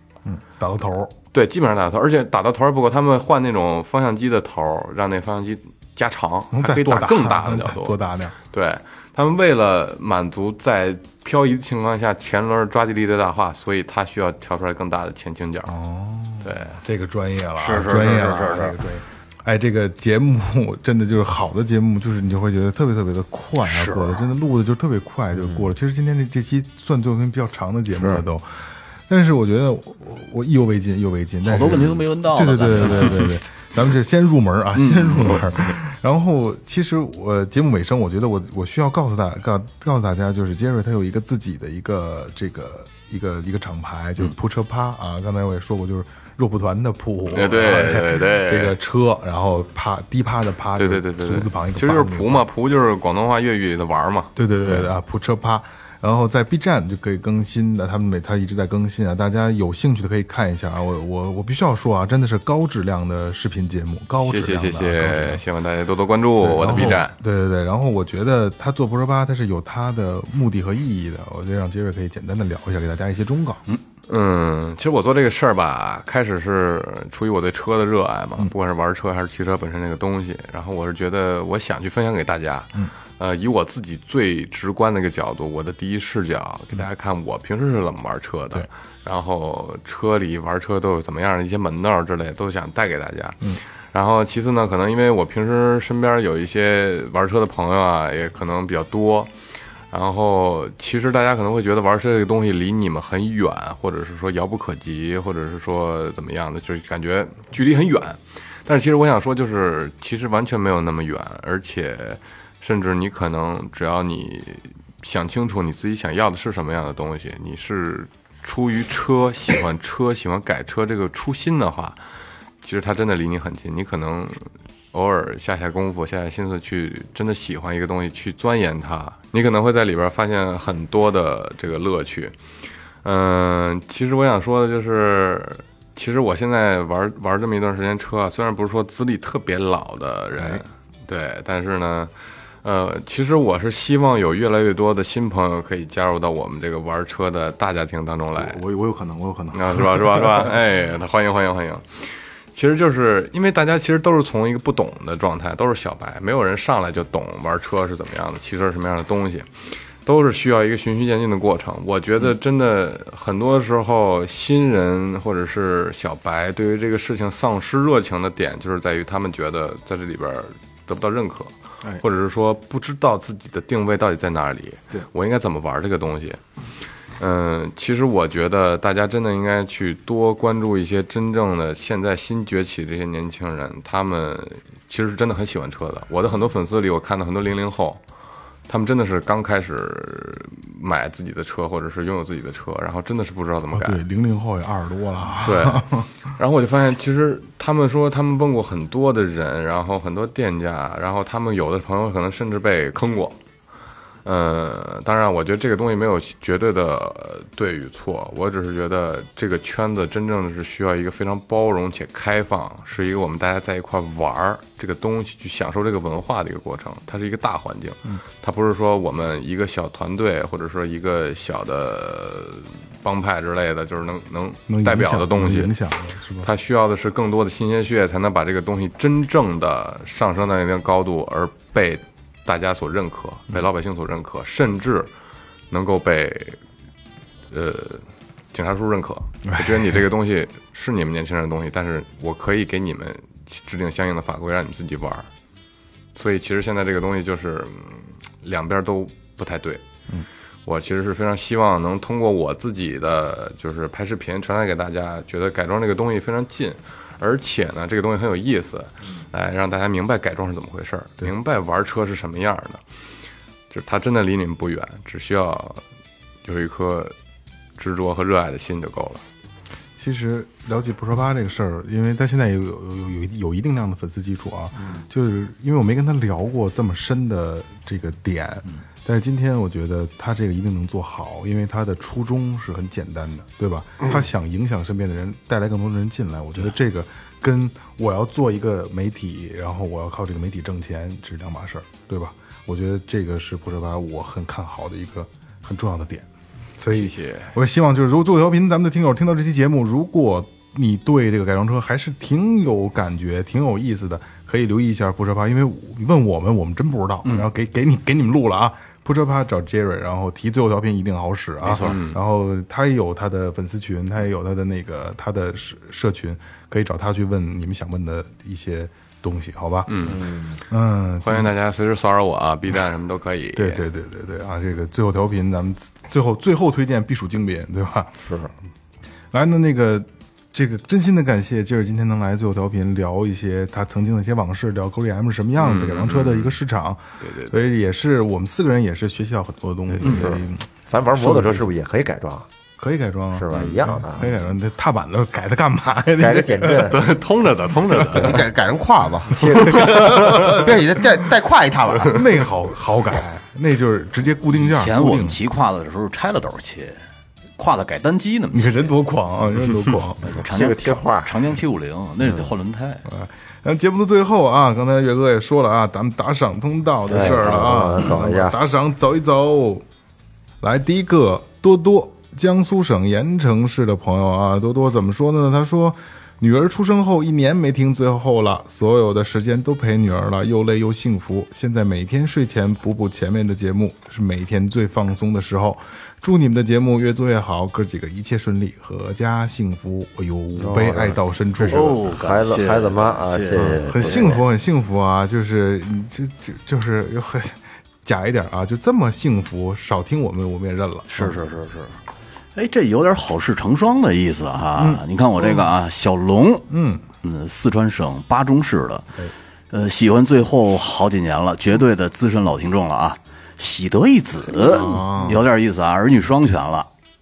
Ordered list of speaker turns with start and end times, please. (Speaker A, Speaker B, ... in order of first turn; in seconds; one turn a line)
Speaker A: 0.2-1.1
Speaker B: 1.3-8.0
Speaker A: 6.5-8.3
Speaker B: 8.5-15.8
Speaker A: 15.7-52.4
Speaker B: 16.4-16.8
Speaker C: 17.6-18.8
Speaker C: 23.6-24.3
Speaker D: 25.4-25.7
Speaker C: 31.4-33.3
Speaker C: 34.8-35.7
Speaker B: 47.3-48.8
Speaker B: 50.8-54.8
Speaker A: 54.4-65.4
Speaker B: 64.2-67.1
Speaker A: 66.4-73.6
Speaker B: 74.1-99.3
Speaker B: 99.9-122.0
Speaker B: 122.6-132.3
Speaker B: 133.0-142.1
Speaker A: 140.4-140.6
Speaker B: 142.6-148.6
Speaker A: 148.3-150.5
Speaker B: 149.5-176.4
Speaker B: 177.2-188.0
Speaker B: 188.7-194.0
Speaker A: 193.7-196.1
Speaker B: 195.4-203.4
Speaker B: 204.2-225.7
Speaker A: 224.7-226.5
Speaker B: 226.4-235.1
Speaker B: 235.7-236.6
Speaker B: 237.5-245.3
Speaker A: 239.4-240.0
Speaker B: 246.1-249.8
Speaker B: 250.7-262.8
Speaker B: 263.7-265.8
Speaker B: 266.4-267.1
Speaker B: 267.8-269.2
Speaker A: 270.0-296.3
Speaker A: 296.8-319.9
Speaker B: 296.9-297.5
Speaker C: 311.6-312.0
Speaker B: 311.8-312.2
Speaker B: 319.9-320.3
Speaker D: 320.0-320.6
Speaker A: 320.7-321.5
Speaker B: 321.2-323.8
Speaker A: 323.6-328.3
Speaker D: 328.2-328.5
Speaker A: 329.3-341.6
Speaker B: 335.6-336.6
Speaker B: 337.2-337.5
Speaker D: 340.0-342.4
Speaker A: 342.8-347.0
Speaker D: 343.3-344.3
Speaker B: 343.5-343.8
Speaker D: 346.1-347.0
Speaker B: 346.9-348.4
Speaker A: 347.9-348.3
Speaker E: 348.2-352.3
Speaker D: 349.3-349.8
Speaker B: 349.5-350.5
Speaker A: 349.7-350.8
Speaker A: 352.0-355.4
Speaker C: 354.5-357.0
Speaker C: 357.6-358.8
Speaker A: 358.5-360.3
Speaker C: 360.2-363.0
Speaker D: 360.4-361.4
Speaker A: 363.0-369.8
Speaker D: 367.1-368.6
Speaker A: 370.6-392.0
Speaker D: 390.6-394.4
Speaker C: 391.6-394.3
Speaker A: 393.5-401.4
Speaker C: 401.1-402.0
Speaker C: 402.5-406.7
Speaker A: 404.8-405.0
Speaker A: 406.7-407.0
Speaker C: 407.2-409.2
Speaker C: 409.7-416.9
Speaker A: 414.6-415.4